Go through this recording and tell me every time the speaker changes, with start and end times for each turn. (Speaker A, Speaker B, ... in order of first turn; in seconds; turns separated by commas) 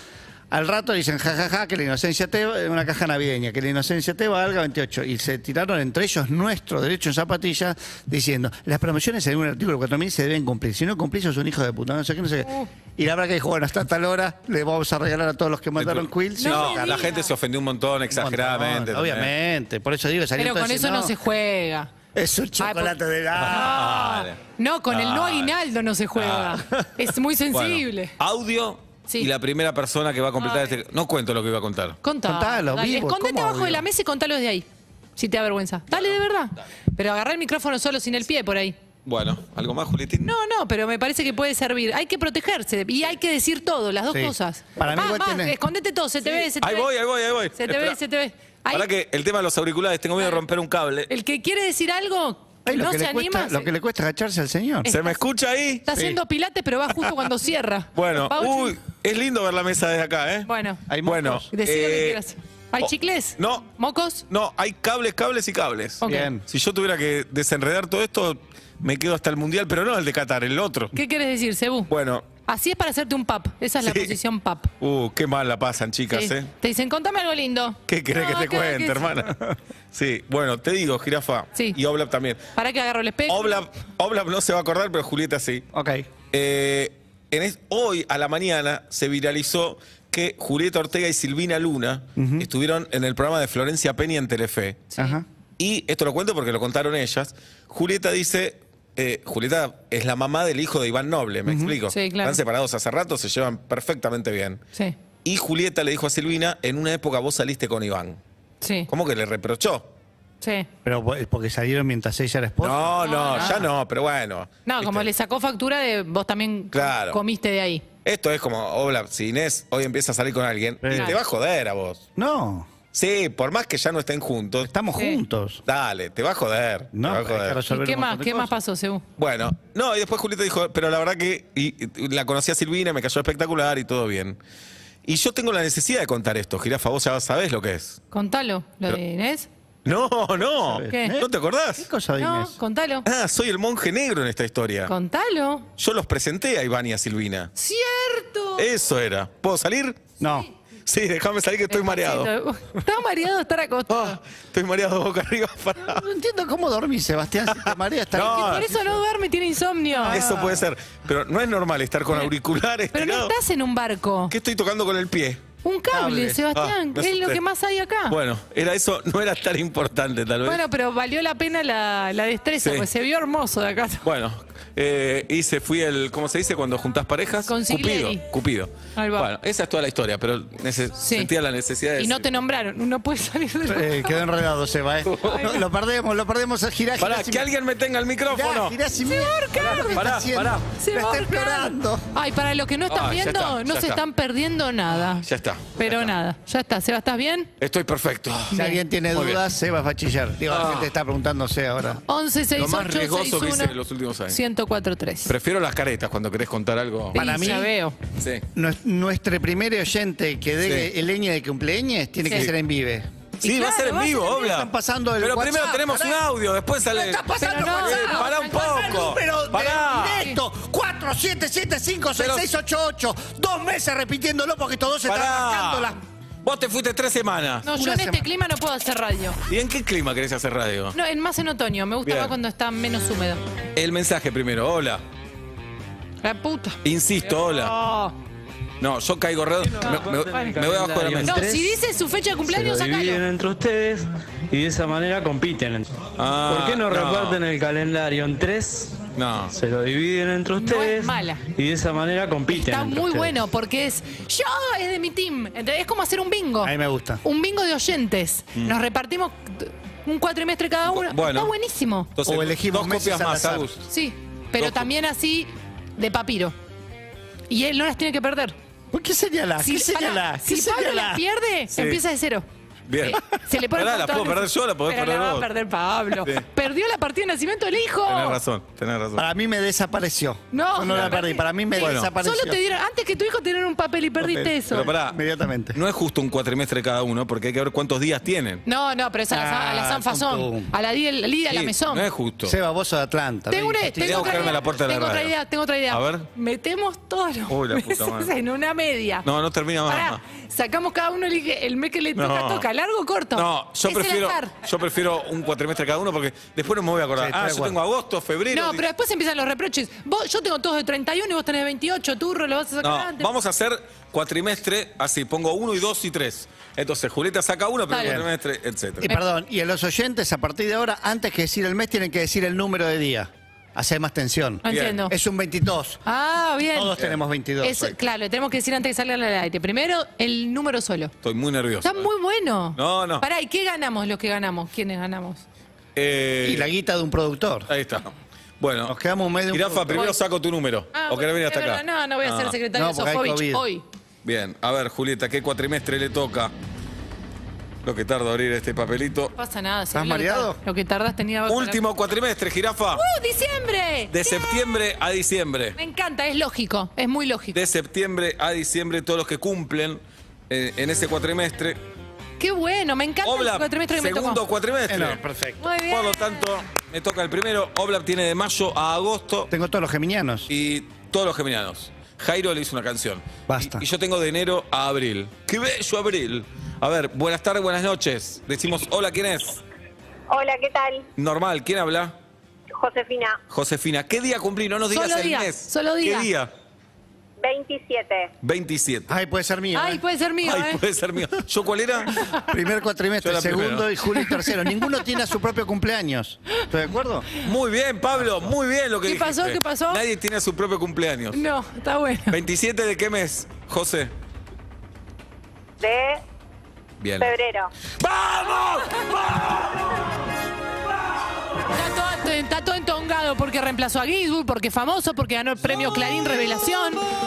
Speaker A: 0.5-17.1, Speaker B: 15.8-19.3, Speaker C: 16.4-17.3, Speaker A: 18.1-21.1, Speaker C: 20.4-21.9, Speaker A: 22.1-23.9, Speaker C: 22.6-22.9, Speaker B: 23.4-24.4, Speaker C: 23.5-28.1, Speaker B: 24.9-25.6, Speaker B: 26.2-27.0, Speaker B: 27.5-32.0, Speaker C: 30.4-30.7, Speaker C: 32.0-34.7, Speaker A: 32.2-33.9, Speaker C: 35.2-38.8, Speaker B: 39.0-40.3, Speaker C: 40.2-46.9, Speaker A: 44.1-45.6, Speaker B: 46.2-48.0, Speaker C: 47.6-48.9, Speaker B: 48.7-51.1, Speaker C: 51.1-53.7, Speaker A: 52.6-54.9, Speaker C: 54.9-55.2, Speaker B: 54.9-55.9, Speaker C: 55.9-58.8, Speaker B: 58.0-60.5, Speaker C: 60.5-60.8, Speaker A: 60.9-61.5, Speaker B: 61.0-62.2, Speaker C: 61.5-64.2, Speaker B: 62.8-63.7, Speaker B: 64.3-71.0, Speaker C: 66.0-66.3, Speaker A: 66.0-66.5, Speaker C: 70.9-71.9, Speaker B: 71.9-72.3, Speaker C: 72.5-74.7, Speaker B: 73.8-74.2, Speaker B: 74.8-76.5, Speaker C: 76.1-79.1, Speaker B: 77.9-82.4, Speaker C: 82.6-83.6, Speaker B: 83.3-85.7, Speaker A: 85.7-86.1, Speaker B: 86.3-94.9, Speaker A: 92.2-92.5, Speaker A: 95.0-95.2, Speaker B: 95.6-104.6, Speaker A: 101.5-101.8, Speaker C: 101.9-102.4, Speaker B: 105.2-108.2, Speaker C: 108.6-108.9, Speaker B: 108.9-109.9, Speaker C: 110.4-110.7, Speaker A: 110.8-113.6, Speaker B: 112.6-115.1, Speaker C: 113.0-113.6, Speaker C: 114.7-117.8, Speaker B: 116.7-117.2, Speaker B: 118.0-122.0, Speaker A: 120.8-121.2, Speaker C: 120.9-121.2, Speaker A: 122.2-122.7, Speaker B: 122.9-124.7, Speaker A: 124.6-125.6, Speaker B: 125.7-127.6, Speaker A: 126.9-128.5, Speaker C: 127.7-129.0, Speaker B: 129.2-134.4, Speaker B: 135.1-138.0, Speaker C: 138.1-139.5, Speaker B: 139.8-141.9, Speaker A: 140.7-142.6, Speaker C: 140.9-141.2, Speaker C: 142.2-143.1, Speaker B: 143.1-144.9, Speaker C: 144.9-145.7, Speaker B: 145.8-147.5, Speaker C: 147.6-148.7, Speaker B: 148.6-150.1, Speaker A: 150.2-150.5, Speaker B: 150.9-152.3, Speaker C: 151.7-154.2, Speaker B: 153.9-156.1, Speaker A: 155.8-158.8, Speaker B: 157.5-158.7, Speaker C: 158.2-160.2, Speaker A: 160.0-160.7, Speaker B: 160.1-163.3, Speaker C: 162.9-164.3, Speaker B: 164.3-165.4, Speaker C: 165.6-168.2, Speaker A: 165.9-166.4, Speaker B: 166.5-167.4, Speaker B: 168.1-170.6, Speaker C: 170.4-174.1, Speaker B: 172.6-172.9, Speaker B: 174.0-182.3, Speaker C: 177.5-178.2, Speaker C: 179.0-179.3, Speaker C: 181.0-181.3, Speaker C: 182.0-184.2, Speaker A: 183.7-187.5, Speaker B: 185.0-185.6, Speaker C: 185.2-185.6, Speaker B: 187.0-188.8, Speaker A: 188.3-192.1, Speaker C: 189.0-190.1, Speaker B: 189.6-190.7, Speaker C: 190.8-195.3, Speaker B: 192.9-194.0, Speaker B: 195.0-196.2, Speaker C: 195.8-197.5, Speaker B: 197.6-199.4, Speaker A: 198.5-202.0, Speaker C: 198.5-198.8, Speaker B: 200.5-200.9, Speaker C: 202.1-203.8, Speaker B: 202.6-204.4, Speaker C: 204.3-205.3, Speaker B: 205.3-207.2, Speaker A: 207.1-207.7, Speaker C: 207.1-208.0, Speaker B: 208.2-208.4, Speaker A: 208.6-213.1, Speaker B: 210.6-210.9, Speaker B: 213.4-220.3, Speaker C: 213.4-214.5, Speaker A: 214.3-216.3, Speaker A: 216.9-226.0, Speaker C: 217.4-219.0, Speaker B: 222.2-222.5, Speaker B: 225.1-227.7, Speaker C: 227.7-229.4, Speaker A: 227.7-228.3, Speaker B: 229.5-231.0, Speaker C: 230.9-233.4, Speaker B: 232.0-232.3, Speaker B: 233.8-235.0, Speaker C: 236.2-236.8, Speaker B: 236.8-237.8, Speaker C: 237.3-238.1, Speaker B: 238.8-241.5, Speaker D: 239.8-241.8, Speaker C: 239.9-240.6, Speaker C: 241.2-243.2, Speaker D: 242.4-245.9, Speaker B: 246.2-247.4, Speaker D: 246.5-253.3, Speaker B: 249.2-249.6, Speaker C: 250.6-251.4, Speaker C: 252.5-262.1, Speaker A: 256.6-257.2, Speaker B: 260.9-261.5, Speaker B: 262.1-263.9, Speaker A: 262.2-263.7, Speaker C: 263.9-266.6, Speaker B: 264.6-264.9, Speaker C: 267.5-268.6, Speaker A: 268.9-271.2, Speaker C: 269.6-272.5, Speaker B: 271.7-272.0, Speaker B: 272.9-275.5, Speaker C: 273.0-278.4, Speaker B: 276.2-276.5, Speaker B: 278.1-279.3, Speaker A: 279.2-282.6, Speaker C: 280.5-284.9, Speaker B: 280.9-281.2, Speaker B: 281.8-282.1, Speaker A: 284.2-285.8, Speaker B: 284.7-285.2, Speaker B: 285.7-288.6, Speaker C: 288.7-292.1, Speaker A: 289.3-290.7, Speaker B: 291.5-292.6, Speaker A: 292.4-294.6, Speaker C: 293.5-299.3, Speaker B: 294.0-295.3, Speaker B: 295.9-296.3, Speaker B: 297.5-298.3, Speaker B: 299.2-300.2, Speaker C: 299.9-304.6, Speaker B: 302.1-302.7, Speaker B: 303.3-308.9, Speaker A: 307.2-307.8, Speaker C: 308.5-313.3, Speaker B: 312.8-319.1, Speaker C: 317.9-318.2, Speaker A: 318.0-318.3, Speaker A: 319.0-326.0, Speaker C: 324.6-325.1, Speaker B: 324.7-325.0, Speaker C: 326.1-326.9, Speaker A: 326.7-328.0, Speaker C: 327.6-331.1, Speaker B: 331.2-332.1, Speaker C: 331.8-335.4, Speaker B: 332.8-333.2, Speaker B: 336.0-336.7, Speaker A: 336.4-337.7, Speaker B: 337.7-339.0, Speaker A: 338.9-340.1, Speaker B: 339.5-342.6, Speaker C: 340.9-343.8, Speaker A: 342.7-343.6, Speaker B: 344.2-346.5, Speaker B: 347.8-349.3, Speaker C: 349.4-351.8, Speaker A: 349.9-350.6, Speaker B: 351.5-353.0, Speaker C: 352.9-354.8, Speaker B: 354.1-355.8, Speaker C: 355.8-357.6, Speaker B: 357.5-361.8, Speaker C: 362.4-364.4, Speaker B: 363.2-365.2, Speaker A: 364.9-365.7, Speaker C: 365.6-366.5, Speaker B: 365.9-369.5, Speaker A: 369.5-370.5, Speaker B: 370.5-379.6, Speaker A: 373.5-373.8, Speaker E: 380.3-381.1, Speaker B: 381.2-382.1, Speaker E: 382.8-383.4, Speaker B: 383.5-386.5, Speaker C: 384.9-386.3, Speaker E: 387.4-388.3, Speaker B: 388.4-389.1, Speaker A: 389.1-390.0, Speaker C: 389.7-390.8, Speaker B: 390.4-392.3, Speaker A: 392.3-397.3, Speaker B: 393.2-393.9, Speaker B: 397.4-401.4, Speaker C: 399.1-400.0, Speaker C: 401.3-402.4, Speaker B: 402.3-404.1, Speaker E: 405.8-406.2, Speaker B: 407.0-407.4, Speaker E: 407.2-407.7, Speaker B: 408.0-410.0, Speaker C: 411.7-417.0